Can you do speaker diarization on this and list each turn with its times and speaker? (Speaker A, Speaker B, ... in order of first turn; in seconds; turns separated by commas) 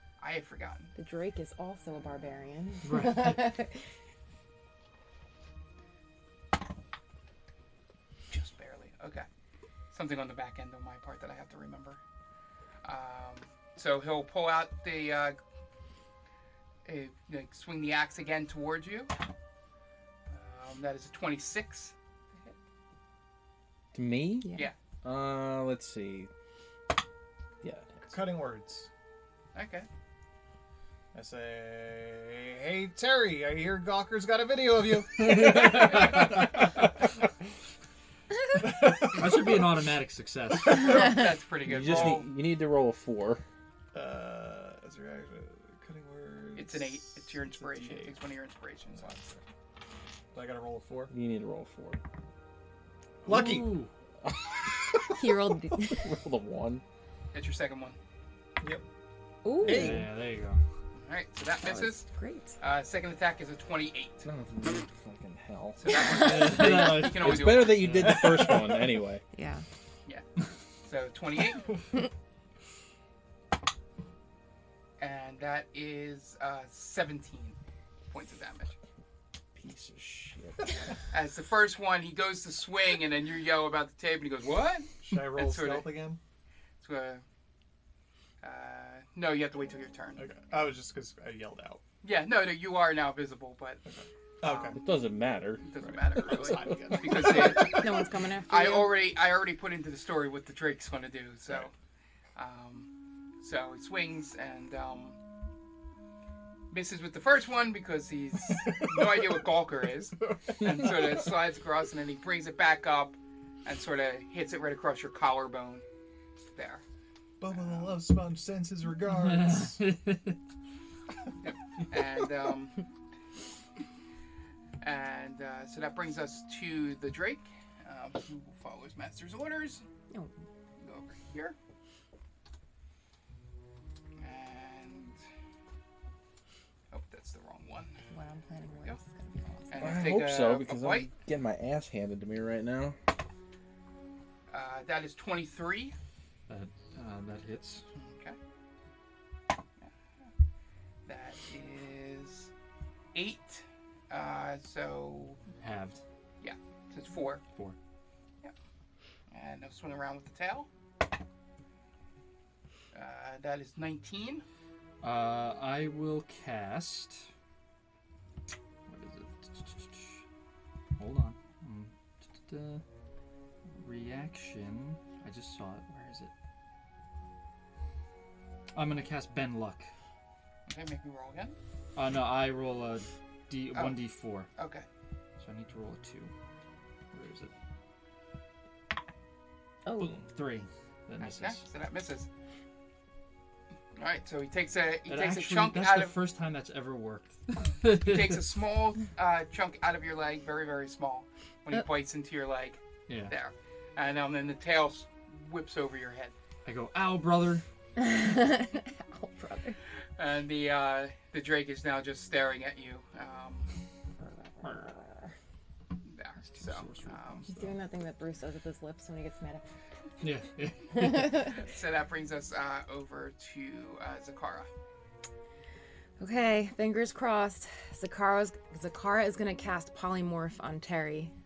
Speaker A: 0.2-0.9, Speaker B: 0.9-3.8, Speaker C: 2.8-3.5, Speaker A: 8.3-9.3, Speaker A: 9.9-12.0, Speaker A: 12.8-15.4, Speaker A: 16.8-19.1, Speaker A: 20.3-22.5, Speaker D: 23.9-26.3, Speaker B: 24.4-24.7, Speaker D: 27.6-28.1, Speaker E: 28.1-28.9, Speaker A: 29.5-29.9, Speaker E: 31.1-36.7, Speaker C: 35.4-36.2, Speaker E: 38.6-39.6, Speaker C: 39.1-41.2, Speaker A: 40.7-42.3, Speaker D: 41.6-43.4, Speaker E: 43.9-48.1, Speaker A: 46.5-49.2, Speaker E: 48.9-49.4, Speaker E: 50.3-51.1, Speaker D: 51.1-52.0, Speaker E: 53.2-53.8, Speaker C: 53.2-53.9, Speaker D: 54.2-55.2, Speaker B: 55.1-56.1, Speaker D: 55.9-56.8, Speaker A: 57.3-58.0, Speaker B: 59.4-60.0, Speaker C: 59.6-60.6, Speaker D: 59.6-60.0, Speaker E: 59.7-60.0, Speaker A: 60.9-62.1, Speaker B: 62.0-62.6, Speaker A: 62.6-64.3, Speaker D: 64.2-66.0, Speaker A: 65.8-68.1, Speaker B: 65.9-66.6, Speaker C: 66.1-68.3, Speaker D: 66.5-69.2, Speaker B: 69.3-69.6, Speaker A: 70.8-71.8, Speaker A: 75.0-77.6, Speaker A: 78.1-78.7, Speaker D: 79.5-80.7, Speaker A: 81.1-85.9, Speaker E: 85.0-86.2, Speaker A: 86.8-87.2, Speaker A: 88.4-90.2, Speaker E: 90.2-91.8, Speaker A: 92.0-93.8, Speaker E: 93.8-94.8, Speaker A: 94.4-94.8, Speaker D: 94.7-95.6, Speaker A: 95.6-97.8, Speaker E: 95.8-98.1, Speaker B: 97.7-98.9, Speaker A: 98.5-101.7, Speaker A: 102.3-102.9, Speaker A: 103.4-105.2, Speaker A: 106.7-115.8, Speaker E: 108.5-109.3, Speaker E: 110.3-111.2, Speaker A: 116.5-116.8, Speaker E: 117.4-119.8, Speaker A: 117.5-118.0, Speaker C: 119.1-120.4, Speaker A: 121.4-122.8, Speaker A: 124.8-129.8, Speaker A: 130.8-131.6, Speaker A: 134.2-135.2, Speaker A: 136.9-138.0, Speaker B: 138.1-140.1, Speaker A: 139.7-141.1, Speaker D: 139.8-143.0, Speaker A: 144.5-145.9, Speaker C: 146.5-147.8, Speaker A: 147.9-148.4, Speaker A: 149.8-150.3, Speaker A: 151.1-152.5, Speaker A: 153.1-155.4, Speaker C: 155.6-156.0, Speaker A: 156.4-157.4, Speaker A: 159.3-160.7, Speaker A: 162.9-164.4, Speaker C: 165.0-167.3, Speaker C: 168.9-170.2, Speaker C: 171.0-172.8, Speaker C: 173.7-176.3, Speaker C: 178.7-179.9, Speaker A: 180.7-181.6, Speaker C: 181.9-184.5, Speaker A: 184.6-184.8, Speaker C: 185.4-186.3, Speaker C: 187.1-187.5, Speaker B: 189.8-190.2, Speaker C: 190.0-191.6, Speaker A: 191.2-192.3, Speaker A: 193.9-196.2, Speaker C: 195.1-198.4, Speaker A: 197.9-206.3, Speaker C: 203.1-203.3, Speaker C: 206.6-207.6, Speaker B: 208.0-209.8, Speaker A: 210.2-213.7, Speaker B: 214.4-215.3, Speaker A: 216.0-217.4, Speaker C: 216.4-217.8, Speaker B: 217.5-219.6, Speaker C: 220.2-221.6, Speaker B: 220.9-221.6, Speaker A: 221.5-224.7, Speaker B: 226.2-231.3